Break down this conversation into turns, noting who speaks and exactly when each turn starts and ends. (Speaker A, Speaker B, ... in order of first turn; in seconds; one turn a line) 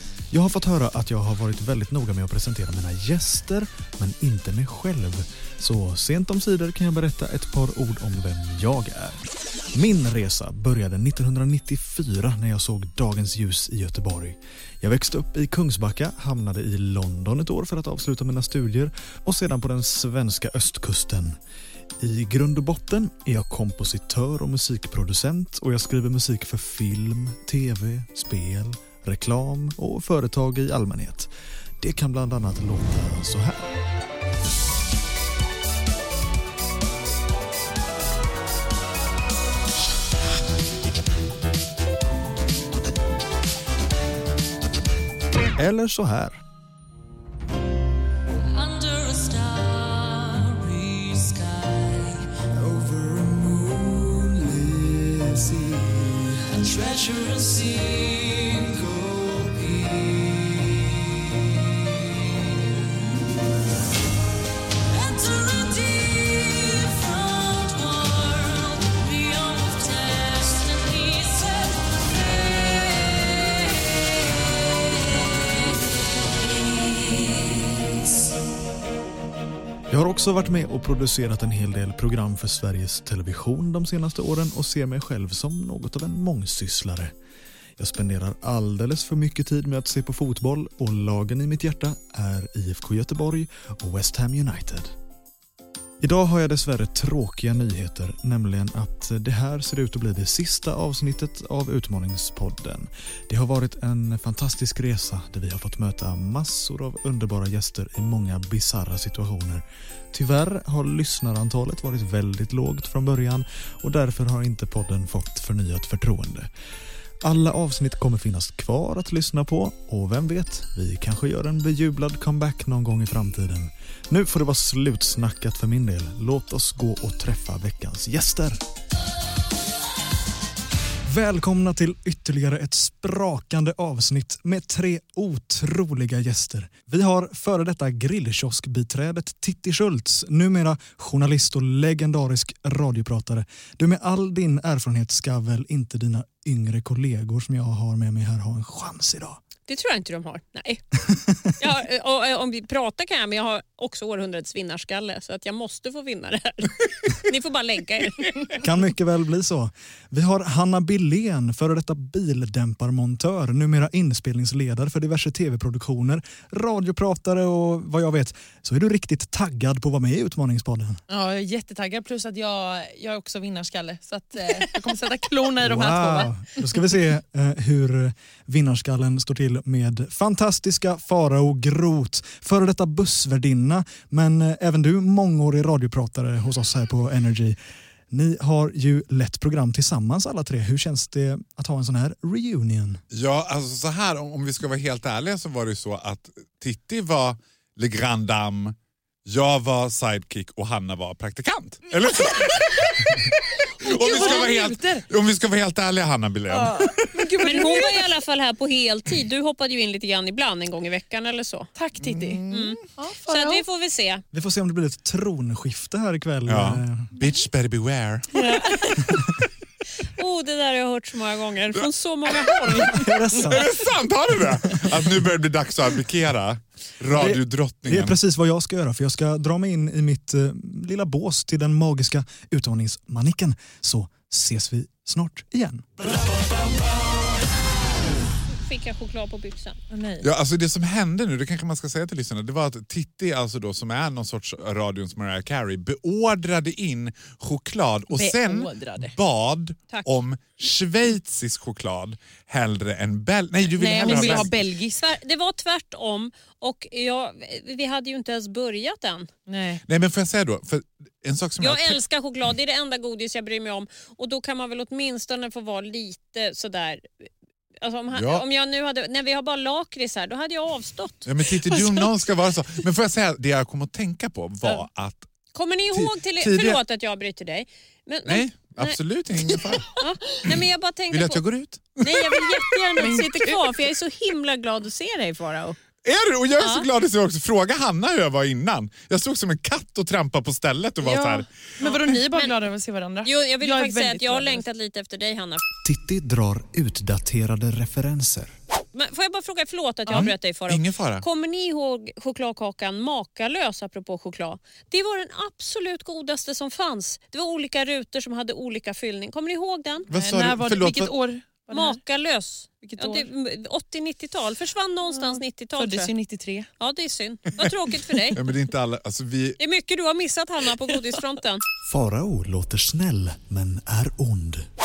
Speaker A: 0.3-21.4
Speaker A: 22.0-33.7
Speaker A: 45.4-46.4
Speaker B: 48.5-52.4
Speaker A: 52.6-59.8
Speaker B: 56.5-58.7
Speaker C: 65.1-71.3
Speaker B: 65.2-70.7
Speaker B: 72.4-73.2
Speaker A: 79.9-87.1
Speaker A: 87.8-94.9
Speaker A: 96.0-116.5
Speaker A: 117.2-128.6
Speaker A: 131.0-149.4
Speaker C: 149.7-150.8
Speaker C: 151.6-158.5
Speaker A: 158.6-171.0
Speaker D: 171.1-176.4
Speaker A: 175.6-187.6
Speaker A: 188.1-193.0
Speaker E: 193.1-207.6
Speaker D: 203.8-205.1
Speaker C: 204.1-204.5
Speaker D: 206.5-208.1
Speaker C: 207.4-211.7
Speaker D: 211.8-213.6
Speaker E: 212.0-212.4
Speaker C: 212.5-214.2
Speaker A: 214.3-217.1
Speaker E: 216.5-218.3
Speaker C: 218.3-219.0
Speaker D: 218.3-219.1
Speaker C: 220.1-223.0
Speaker E: 221.8-228.2
Speaker A: 222.9-225.0
Speaker A: 227.1-235.9
Speaker C: 238.5-239.8
Speaker D: 239.9-240.3
Speaker E: 240.2-254.5
Speaker D: 248.1-249.1
Speaker D: 253.8-255.1
Speaker C: 254.0-259.3
Speaker D: 259.5-259.8
Speaker E: 259.9-262.0
Speaker C: 261.6-267.3
Speaker C: 267.8-271.3
Speaker E: 268.1-268.4
Speaker E: 271.2-275.2
Speaker D: 271.7-272.0
Speaker C: 275.5-279.0
Speaker E: 275.9-276.8
Speaker E: 278.2-279.9
Speaker C: 280.0-281.4
Speaker E: 281.1-282.4
Speaker C: 282.0-285.8
Speaker D: 283.0-283.7
Speaker E: 286.0-291.5
Speaker C: 286.6-286.9
Speaker D: 291.0-294.6
Speaker C: 291.8-292.6
Speaker C: 293.2-295.6
Speaker A: 295.8-298.6
Speaker C: 298.9-310.1
Speaker E: 300.1-301.2
Speaker E: 310.1-311.1
Speaker D: 310.1-312.0
Speaker C: 311.7-316.1
Speaker D: 312.8-313.3
Speaker D: 315.1-316.7
Speaker C: 316.8-318.4
Speaker E: 318.3-319.6
Speaker C: 319.6-321.6
Speaker A: 321.9-324.6